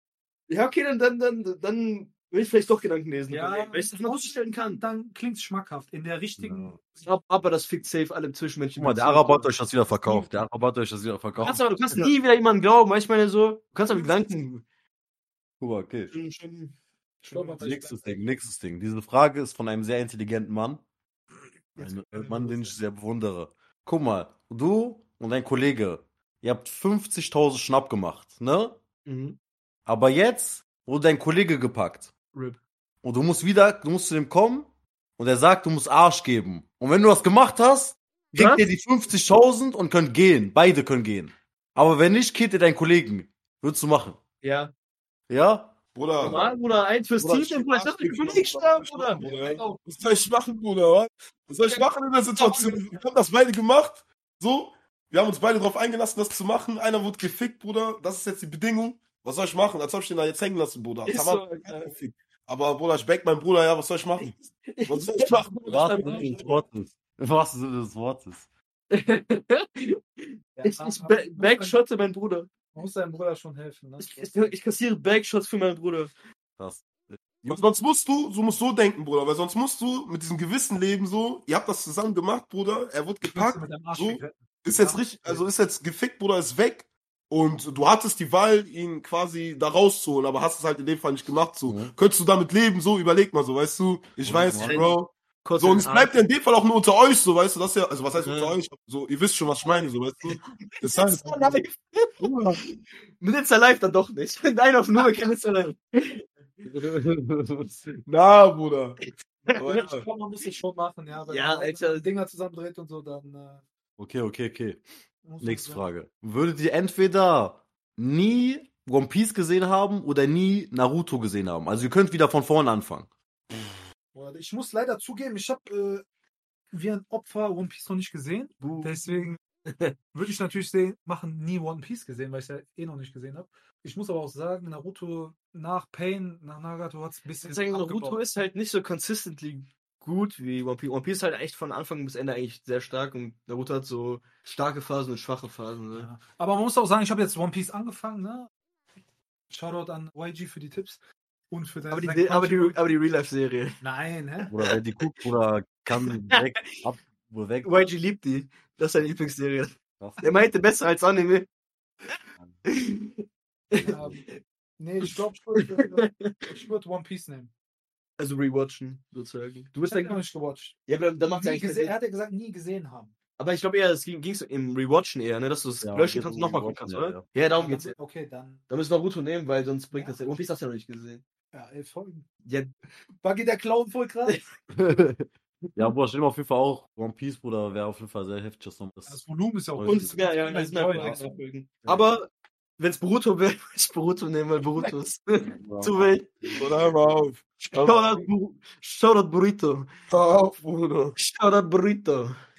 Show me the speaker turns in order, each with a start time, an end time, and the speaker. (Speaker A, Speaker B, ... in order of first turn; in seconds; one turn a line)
Speaker A: 0.5-4.8
Speaker B: 3.3-6.8
Speaker C: 6.4-6.8
Speaker A: 7.0-9.5
Speaker C: 8.8-12.1
Speaker A: 11.4-14.6
Speaker C: 15.6-16.1
Speaker A: 16.1-17.7
Speaker B: 17.2-18.1
Speaker C: 17.6-20.8
Speaker A: 21.8-22.1
Speaker C: 21.8-28.8
Speaker B: 22.1-22.6
Speaker A: 29.1-29.4
Speaker C: 29.9-32.1
Speaker A: 32.3-32.6
Speaker C: 33.0-44.2
Speaker A: 38.3-38.6
Speaker A: 44.4-44.7
Speaker C: 45.3-46.4
Speaker D: 46.0-46.5
Speaker A: 46.2-49.7
Speaker D: 47.2-64.3
Speaker A: 51.6-52.8
Speaker A: 61.0-61.9
Speaker A: 64.2-66.6
Speaker D: 64.9-66.3
Speaker C: 65.7-68.5
Speaker A: 68.9-72.5
Speaker B: 70.6-71.8
Speaker B: 72.7-74.3
Speaker A: 74.0-76.1
Speaker C: 76.6-77.6
Speaker D: 77.5-101.6
Speaker B: 83.2-85.5
Speaker C: 91.7-91.9
Speaker C: 94.2-94.8
Speaker A: 94.6-96.2
Speaker A: 98.2-98.6
Speaker A: 99.6-102.2
Speaker D: 102.2-102.6
Speaker A: 103.2-106.7
Speaker C: 106.7-107.7
Speaker D: 108.0-109.0
Speaker D: 109.6-110.1
Speaker B: 109.6-113.6
Speaker A: 111.3-112.0
Speaker C: 114.0-114.8
Speaker B: 115.2-115.8
Speaker C: 115.4-123.6
Speaker B: 124.1-126.0
Speaker B: 126.7-129.4
Speaker A: 128.6-129.9
Speaker B: 130.1-138.2
Speaker A: 137.4-146.1
Speaker B: 145.9-148.5
Speaker B: 149.5-152.8
Speaker A: 151.9-153.8
Speaker B: 153.8-154.5
Speaker A: 154.5-154.8
Speaker C: 154.5-157.8
Speaker A: 156.0-156.8
Speaker A: 157.6-161.5
Speaker C: 160.0-160.4
Speaker A: 162.7-164.3
Speaker B: 163.8-164.2
Speaker B: 164.8-167.5
Speaker A: 165.0-166.5
Speaker A: 168.2-170.2
Speaker B: 169.8-170.8
Speaker A: 170.9-171.9
Speaker B: 171.3-173.1
Speaker A: 173.4-177.9
Speaker C: 175.8-177.2
Speaker B: 177.5-178.6
Speaker A: 178.7-181.2
Speaker B: 181.5-182.2
Speaker A: 182.4-182.7
Speaker B: 183.2-184.4
Speaker C: 185.8-189.2
Speaker B: 189.1-191.4
Speaker C: 189.7-190.2
Speaker A: 189.8-192.3
Speaker C: 190.9-191.2
Speaker A: 192.8-196.6
Speaker C: 195.5-196.2
Speaker D: 196.5-198.2
Speaker A: 197.7-199.9
Speaker D: 200.1-201.2
Speaker A: 201.2-202.4